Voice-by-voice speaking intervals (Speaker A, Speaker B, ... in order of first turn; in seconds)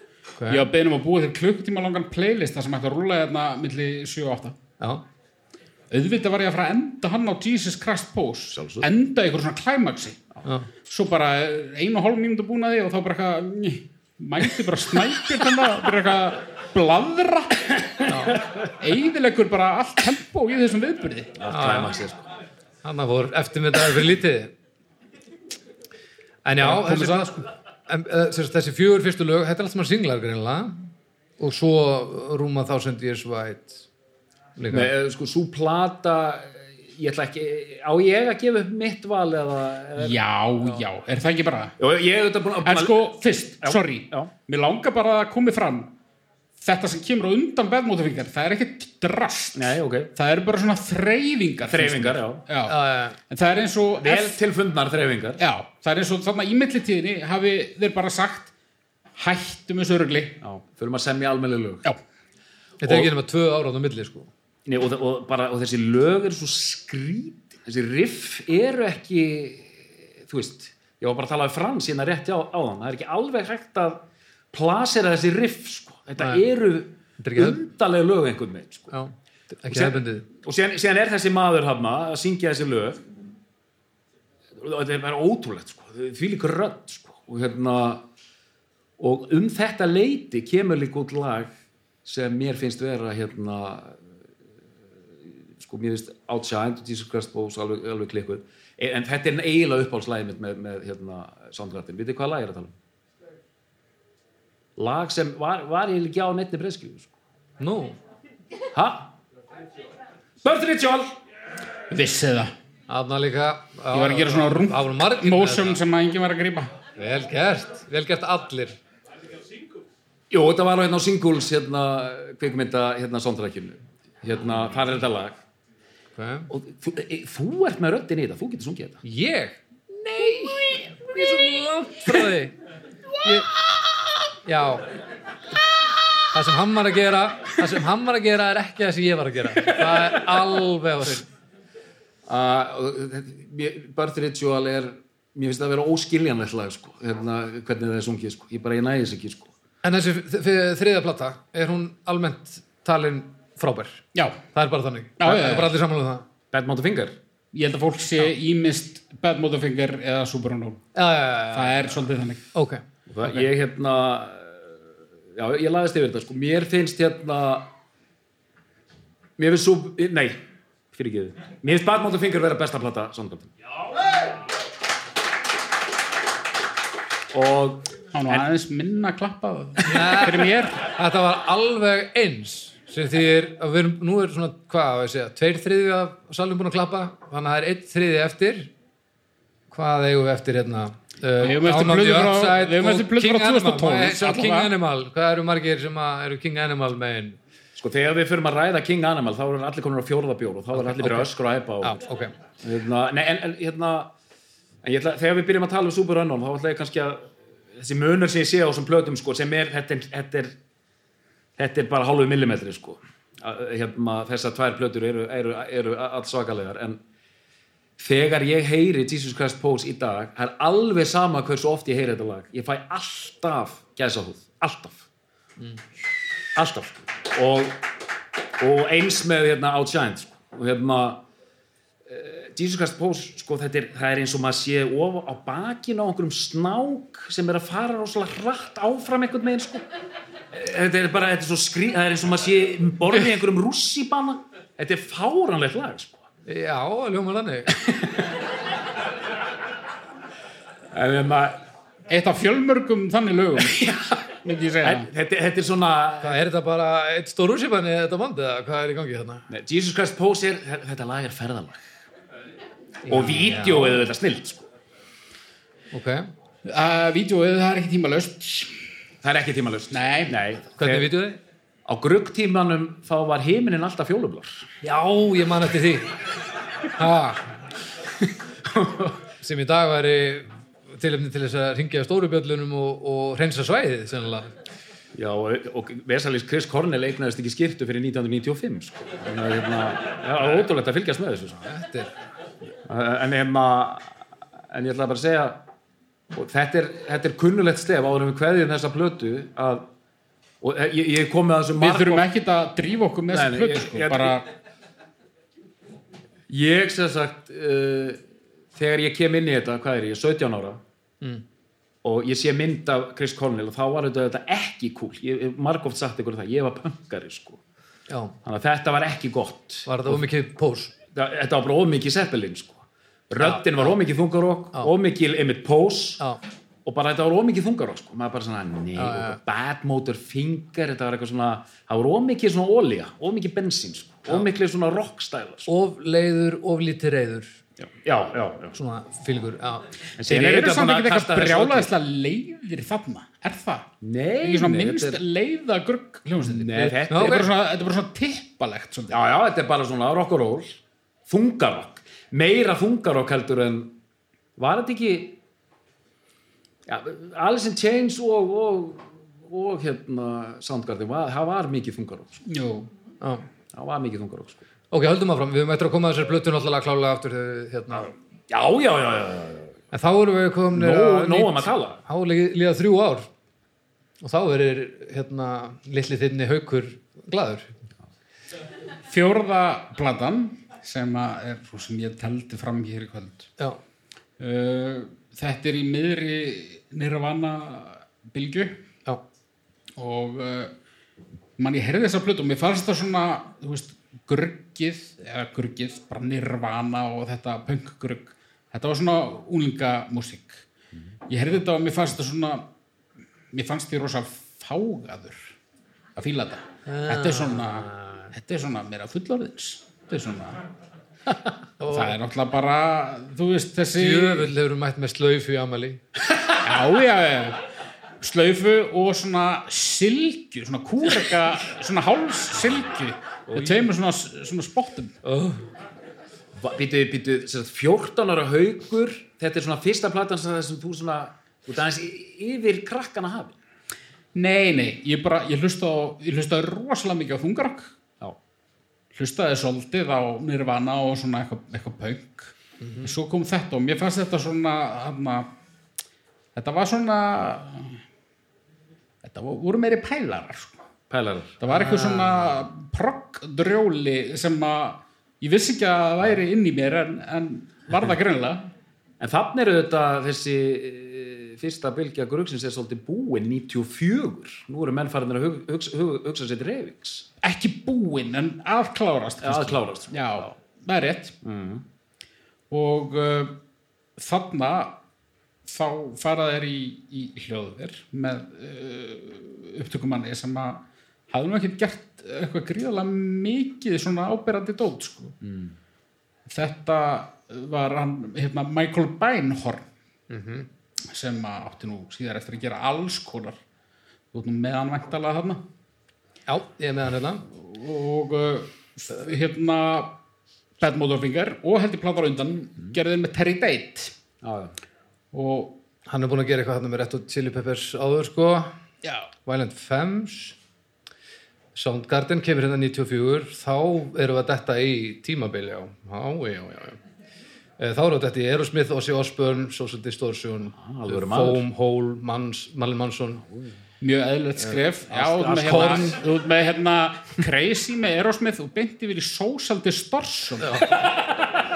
Speaker A: 0.4-0.6, 18.1-18.4, 21.5-22.0, 22.8-24.5, 26.4-27.4, 27.9-30.9, 31.4-33.9, 34.6-34.9, 52.7-53.1, 62.8-64.3, 77.2-77.6, 78.9-80.2, 107.6-108.0, 112.9-115.8, 117.0-118.8, 126.2-126.5, 129.0-132.5, 133.2-133.5, 134.4-134.9, 136.3-141.2, 149.8-154.0, 154.5-156.2, 160.9-162.0, 162.5-162.8, 179.8-188.7, 189.7-197.4, 200.7-201.3, 201.8-202.3, 246.4-247.8, 256.2-259.4, 263.1-264.0, 265.9-266.3, 270.8-271.4, 274.8-276.1, 276.9-277.5, 279.4-284.5, 291.6-292.1, 318.1-318.3, 319.9-320.9, 323.4-324.0, 328.9-329.4, 335.7-337.5, 338.7-339.9, 347.1-347.5, 364.9-368.1, 369.9-373.3, 374.2-377.7, 406.9-408.2, 411.8-412.1, 413.9-416.0, 425.3-425.5, 442.8-443.1, 451.7-452.5, 490.3-490.7, 496.5-497.4, 506.1-508.7, 509.4-510.6, 511.7-517.0, 517.8-523.4, 525.5-526.1, 530.6-531.0
Speaker B: 0.5-4.5, 5.9-10.2, 10.9-18.1, 18.8-21.3, 26.6-27.4, 40.0-41.7, 42.6-45.9, 46.6-52.8, 53.3-54.4, 55.4-58.5, 59.2-60.4, 111.9-112.5, 113.9-116.7, 154.1-154.4, 155.2-155.7, 157.5-160.9, 161.5-162.4, 178.1-180.8, 191.4-194.7, 252.1-253.8, 254.4-255.1, 266.6-268.7, 269.9-270.3, 301.8-304.4, 340.2-343.9, 344.4-349.1, 362.5-362.9, 379.1-383.5, 384.4-388.8, 390.0-390.7, 391.6-400.6, 401.3-402.6, 403.5-405.5, 406.2-410.6, 411.9-414.5, 416.6-417.6, 418.2-425.1, 434.3-437.9, 439.1-445.5, 446.6-448.0, 449.2-450.8, 451.6-458.7, 467.4-471.3, 472.7-473.6, 474.2-474.9, 475.7-485.3, 486.5-489.8, 491.1-493.6, 494.3-495.6, 497.5-500.1, 500.8-504.1, 505.3-505.7, 509.0-509.3, 524.0-530.8
Speaker C: 8.5-8.9, 21.4-22.2, 34.7-40.8, 41.8-44.3, 49.5-50.1, 51.7-52.4, 54.0-55.4, 60.4-61.8, 64.7-74.0, 74.5-79.0, 79.7-83.0, 84.6-88.0, 89.0-91.5, 92.0-94.0, 95.6-102.7, 104.8-107.1, 108.7-109.1, 110.4-111.2, 120.3-125.4, 126.5-129.0, 142.3-149.5, 156.5-157.2, 163.1-167.7, 169.4-170.4, 170.9-173.5, 177.3-178.4, 197.8-202.0, 202.6-204.1, 204.8-210.5, 211.6-217.0, 218.0-225.1, 226.6-227.8, 228.6-231.2, 232.1-239.8, 240.5-246.2, 250.9-251.6, 253.6-254.2, 254.8-256.4, 259.5-261.9, 263.1-264.7, 269.2-271.1, 271.9-274.7, 278.6-279.2, 285.1-291.6, 292.9-294.1, 294.7-295.6, 296.3-299.9, 300.6-302.2, 303.3-304.4, 306.5-308.2, 308.7-310.8, 312.0-317.6, 318.4-320.3, 321.1-326.2, 326.8-335.7, 337.8-338.8, 340.2-341.9, 344.0-345.2, 346.4-347.5, 349.1-353.9, 354.6-355.4, 356.9-362.4, 363.7-364.6, 367.9-369.8, 370.7-372.0, 426.6-433.6, 451.1-451.6, 459.2-467.2, 469.4-470.5, 471.4-471.8, 485.4-485.7, 504.4-504.7, 520.7-521.6, 525.1-526.2